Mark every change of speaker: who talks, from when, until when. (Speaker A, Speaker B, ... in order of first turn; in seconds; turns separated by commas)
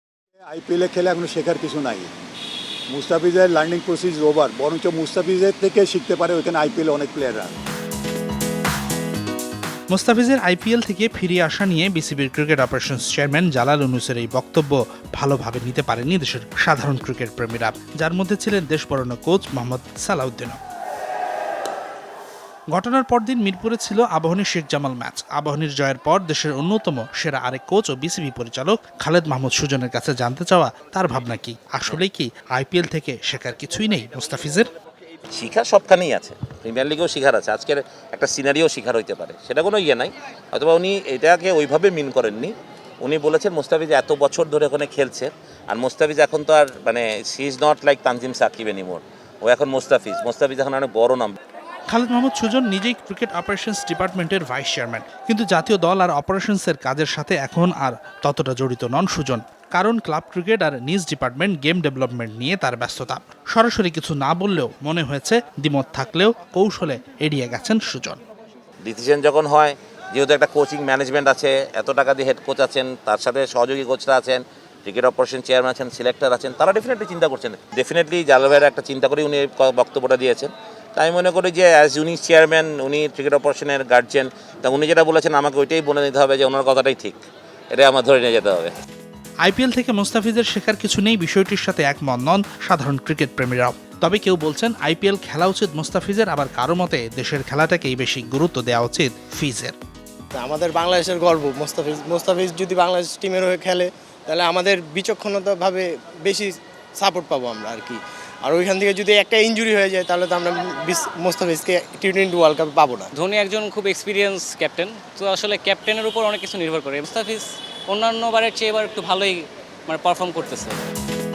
Speaker A: 0.5-2.1, Speaker A: 2.9-7.5, Speaker B: 9.9-20.6, Speaker B: 22.7-34.7, Speaker C: 35.3-51.4, Speaker B: 51.9-68.2, Speaker C: 68.8-87.2, Speaker C: 87.7-88.7, Speaker B: 89.4-99.8, Speaker D: 100.3-113.1, Speaker E: 113.1-120.8